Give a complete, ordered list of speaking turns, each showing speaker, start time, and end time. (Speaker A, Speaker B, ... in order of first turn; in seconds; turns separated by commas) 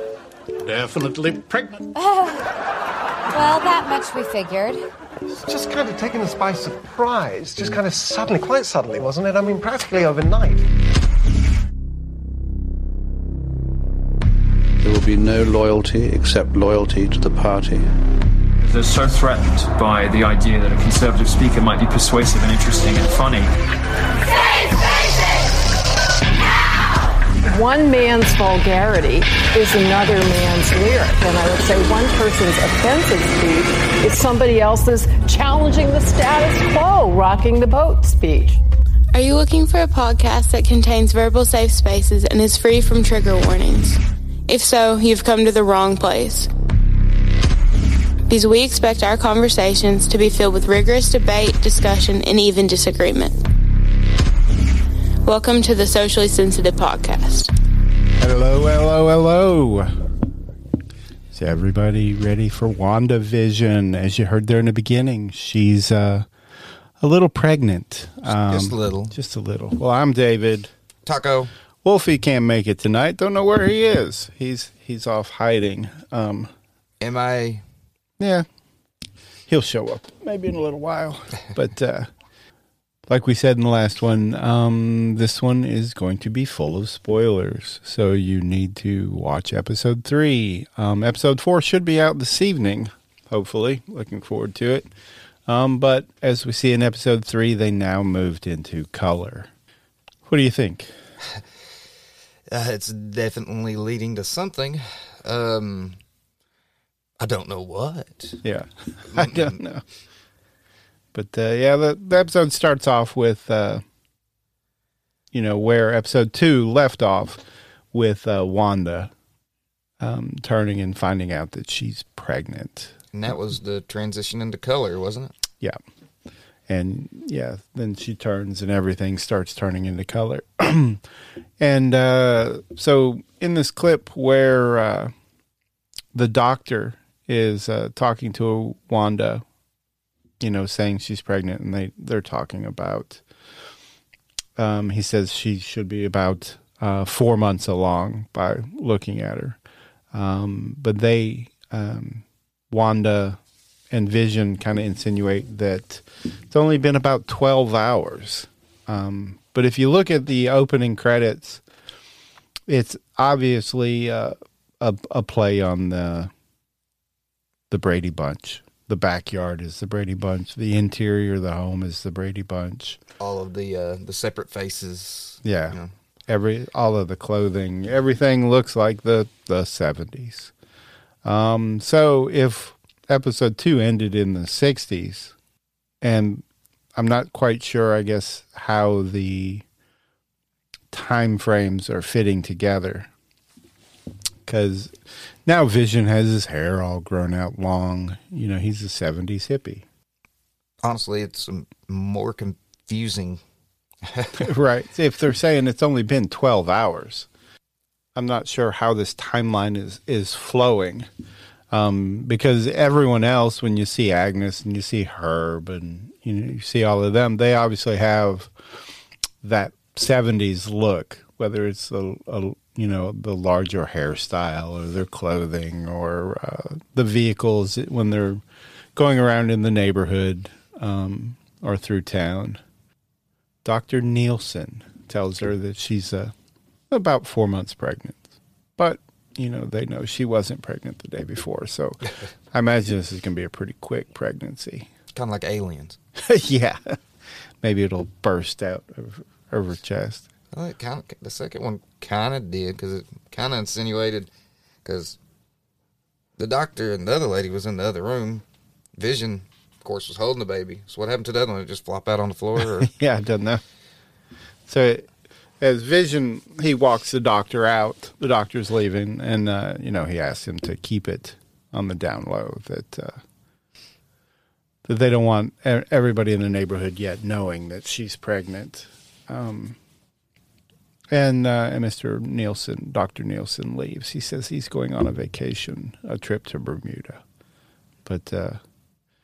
Speaker A: 1.9-2.5, Speaker A: 3.3-4.8, Speaker B: 5.3-10.7, Speaker C: 14.8-17.9, Speaker D: 18.6-23.5, Speaker E: 27.4-38.6, Speaker F: 39.1-46.5, Speaker F: 48.3-53.4, Speaker F: 55.2-57.5, Speaker G: 58.2-59.9, Speaker G: 61.3-66.3, Speaker G: 67.0-70.7, Speaker H: 68.2-69.1, Speaker H: 71.1-71.5, Speaker G: 71.8-76.5, Speaker H: 77.0-77.6, Speaker G: 78.2-78.5, Speaker G: 79.5-82.1, Speaker G: 83.1-94.9, Speaker G: 95.5-99.5, Speaker G: 100.3-100.9, Speaker H: 102.5-106.0, Speaker H: 107.2-108.4, Speaker G: 108.4-109.8, Speaker H: 109.1-109.6, Speaker G: 111.1-113.8, Speaker G: 115.3-119.1, Speaker G: 120.0-122.9, Speaker H: 123.1-125.3, Speaker G: 126.7-131.0, Speaker G: 131.6-135.1, Speaker G: 136.1-139.4, Speaker G: 140.4-143.2, Speaker G: 144.6-149.6, Speaker G: 150.1-153.4, Speaker G: 153.9-161.6, Speaker G: 162.7-166.3, Speaker G: 167.7-173.0, Speaker H: 173.2-175.9, Speaker G: 175.4-180.5, Speaker G: 181.2-185.3, Speaker G: 186.0-186.4, Speaker G: 186.9-189.7, Speaker G: 190.9-193.1, Speaker G: 194.5-194.9, Speaker G: 195.5-199.8, Speaker H: 200.8-203.4, Speaker H: 204.0-204.5, Speaker G: 204.4-207.3, Speaker G: 208.2-211.1, Speaker G: 211.7-218.5, Speaker G: 219.4-228.4, Speaker G: 228.9-232.6, Speaker G: 233.6-236.3, Speaker G: 236.9-238.3, Speaker G: 238.8-244.9, Speaker H: 245.1-246.0, Speaker G: 246.2-247.0, Speaker G: 247.6-250.3, Speaker H: 250.5-254.3, Speaker H: 254.8-255.2, Speaker H: 256.4-258.4, Speaker H: 259.0-262.9, Speaker G: 262.7-263.6, Speaker G: 264.7-265.1, Speaker G: 265.6-273.2, Speaker G: 274.9-279.8, Speaker G: 281.1-287.2, Speaker G: 288.1-288.6